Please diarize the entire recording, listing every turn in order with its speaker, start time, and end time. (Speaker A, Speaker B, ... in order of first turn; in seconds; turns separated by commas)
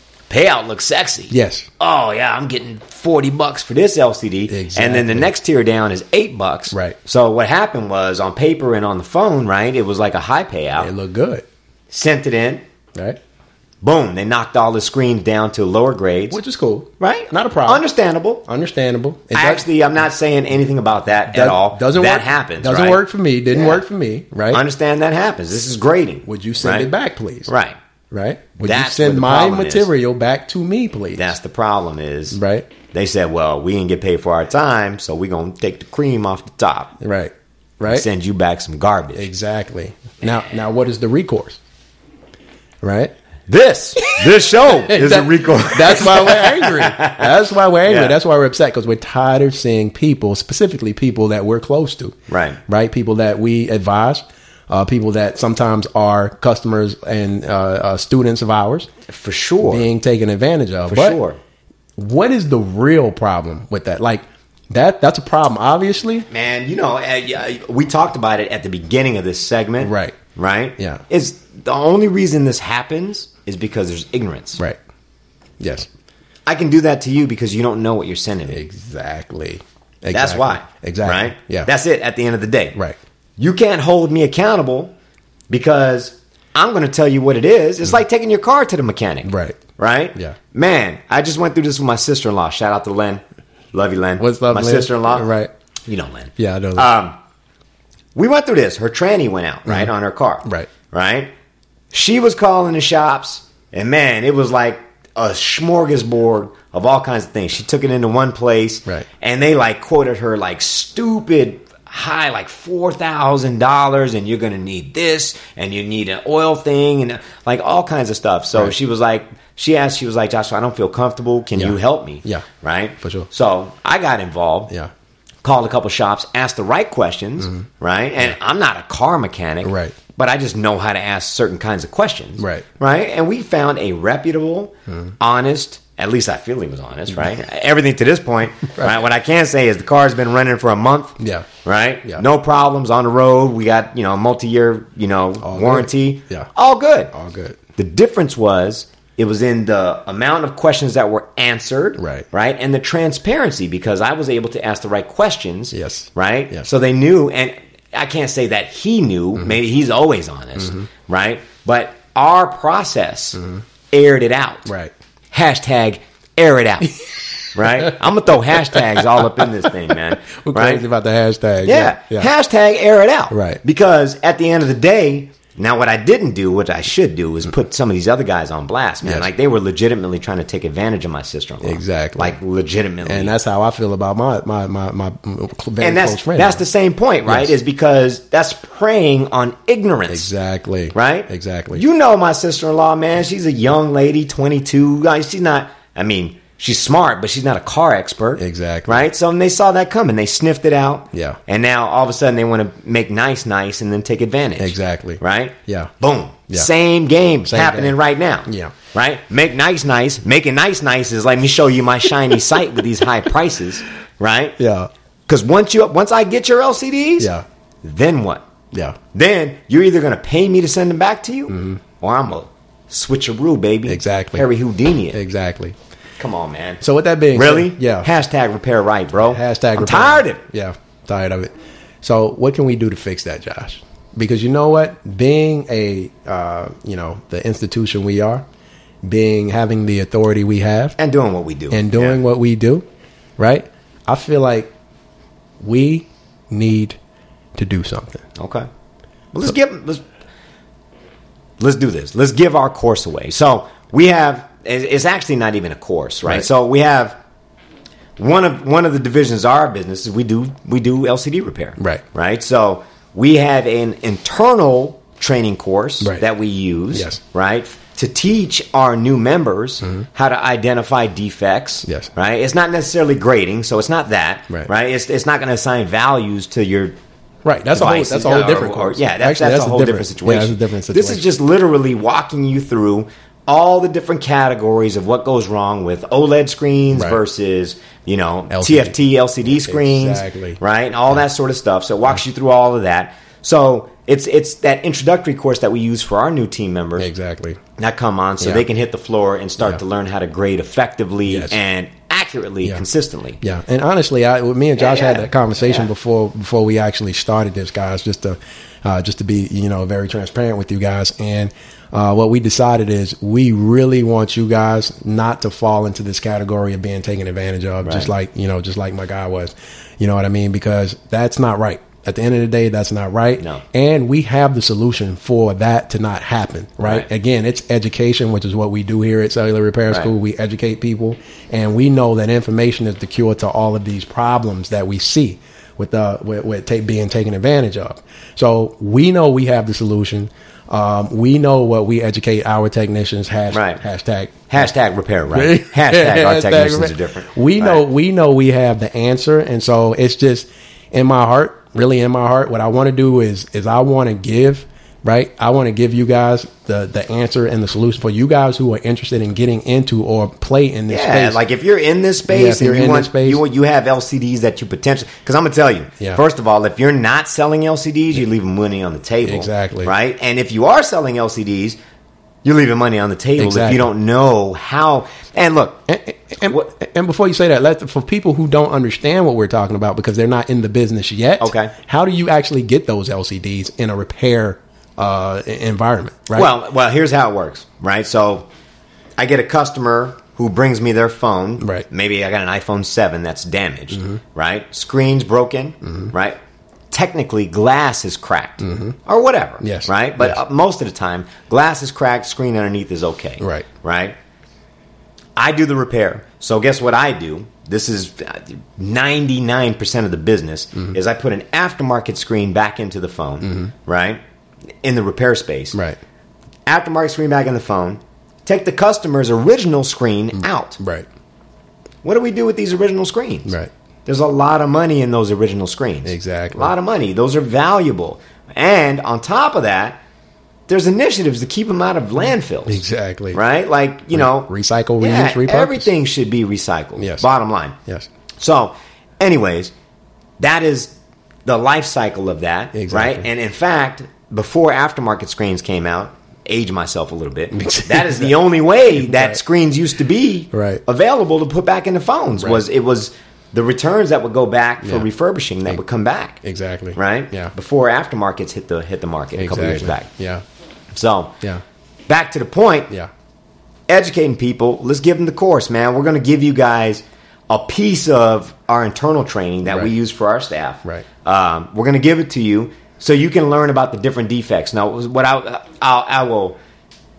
Speaker A: 0.3-10.9, Speaker B: 1.3-1.7, Speaker B: 4.5-5.3, Speaker B: 6.7-7.0, Speaker B: 10.8-11.4, Speaker A: 11.9-12.6, Speaker A: 13.8-16.4, Speaker B: 16.3-17.8, Speaker A: 17.0-18.4, Speaker B: 18.5-19.6, Speaker A: 19.3-23.0, Speaker B: 21.3-24.6, Speaker A: 23.5-23.8, Speaker A: 24.5-26.9, Speaker B: 26.2-27.5, Speaker A: 27.5-27.8, Speaker B: 28.1-31.3, Speaker A: 28.6-29.9, Speaker A: 31.1-32.4, Speaker B: 32.3-32.7, Speaker A: 32.9-36.9, Speaker B: 37.0-38.0, Speaker A: 37.9-39.2, Speaker B: 39.1-41.6, Speaker B: 42.8-43.1, Speaker A: 43.5-48.1, Speaker B: 44.8-58.9, Speaker A: 52.3-52.6, Speaker A: 59.1-59.9, Speaker B: 59.6-61.2, Speaker A: 60.9-61.4, Speaker B: 62.0-66.3, Speaker A: 66.3-74.6, Speaker B: 69.8-70.1, Speaker B: 70.8-71.0, Speaker B: 75.6-75.9, Speaker A: 76.5-78.6, Speaker B: 78.5-81.7, Speaker A: 80.1-82.8, Speaker A: 83.4-84.9, Speaker A: 85.5-95.3, Speaker B: 89.2-89.6, Speaker B: 94.2-95.5, Speaker A: 95.9-97.2, Speaker B: 96.4-96.9, Speaker A: 98.1-101.3, Speaker B: 100.4-100.7, Speaker A: 101.9-124.7, Speaker B: 121.6-122.4, Speaker B: 123.0-123.3, Speaker A: 125.4-147.1, Speaker B: 129.6-130.0, Speaker B: 132.4-132.6, Speaker B: 141.2-141.5, Speaker B: 145.4-146.5, Speaker B: 147.1-147.6, Speaker A: 147.8-164.7, Speaker B: 152.0-152.2, Speaker B: 155.7-156.7, Speaker B: 160.6-160.9, Speaker B: 163.4-163.6, Speaker B: 164.7-164.9, Speaker A: 165.3-166.9, Speaker A: 167.5-170.8, Speaker B: 168.7-169.2, Speaker B: 170.4-172.3, Speaker A: 171.6-183.3, Speaker B: 173.3-173.6, Speaker B: 181.6-182.4, Speaker B: 183.1-186.6, Speaker A: 185.8-190.3, Speaker B: 187.3-187.5, Speaker B: 190.1-191.8, Speaker A: 190.9-214.6, Speaker B: 198.4-199.1, Speaker B: 201.1-201.4, Speaker B: 204.6-205.9, Speaker B: 207.5-207.9, Speaker B: 208.5-208.7, Speaker B: 214.6-214.9, Speaker A: 215.3-217.3, Speaker B: 217.2-217.4, Speaker A: 217.8-218.4, Speaker A: 219.1-225.2, Speaker B: 221.5-221.8, Speaker B: 223.9-224.5, Speaker B: 225.1-225.7, Speaker A: 226.2-226.8, Speaker B: 226.8-228.1, Speaker A: 227.3-230.4, Speaker B: 229.3-231.5, Speaker B: 232.0-238.4, Speaker B: 239.0-241.0, Speaker A: 241.0-242.2, Speaker B: 241.7-242.8, Speaker B: 243.4-244.7, Speaker B: 245.6-247.0, Speaker B: 247.6-248.2, Speaker A: 248.4-248.7, Speaker A: 249.3-250.0, Speaker A: 251.6-257.2, Speaker A: 258.2-276.9, Speaker B: 266.9-267.2, Speaker B: 277.4-281.2, Speaker A: 277.7-297.1, Speaker B: 286.9-287.2, Speaker B: 288.5-290.6, Speaker B: 297.0-297.6, Speaker A: 297.8-303.4, Speaker B: 301.3-301.6, Speaker B: 303.4-344.5, Speaker A: 304.8-305.9, Speaker A: 317.8-318.1, Speaker A: 343.5-343.8, Speaker A: 344.5-347.8, Speaker B: 345.3-361.4, Speaker A: 360.9-371.8, Speaker B: 362.3-363.4, Speaker B: 369.2-369.9, Speaker A: 372.4-375.8, Speaker B: 373.4-373.9, Speaker B: 375.9-386.5, Speaker A: 381.4-381.7, Speaker A: 386.3-388.5, Speaker A: 389.2-396.4, Speaker B: 391.6-391.9, Speaker B: 393.9-394.2, Speaker B: 395.9-396.1, Speaker A: 396.9-404.1, Speaker B: 398.6-399.0, Speaker B: 399.6-400.4, Speaker B: 403.4-403.6, Speaker A: 405.4-414.2, Speaker B: 413.4-413.7, Speaker A: 414.8-415.8, Speaker A: 416.6-420.8, Speaker B: 420.8-421.1, Speaker A: 422.0-423.5, Speaker A: 424.1-430.0, Speaker B: 426.1-426.7, Speaker A: 430.7-432.8, Speaker B: 432.7-433.4, Speaker A: 433.3-437.8, Speaker B: 434.1-435.9, Speaker B: 437.0-437.2, Speaker A: 438.4-439.7, Speaker A: 440.4-440.9, Speaker A: 441.4-456.4, Speaker B: 442.7-443.2, Speaker B: 447.5-448.3, Speaker B: 449.0-449.4, Speaker B: 450.5-450.8, Speaker B: 454.8-455.1, Speaker B: 456.4-457.5, Speaker A: 456.9-460.1, Speaker B: 459.4-460.4, Speaker A: 460.9-461.4, Speaker A: 462.1-462.9, Speaker A: 463.9-476.6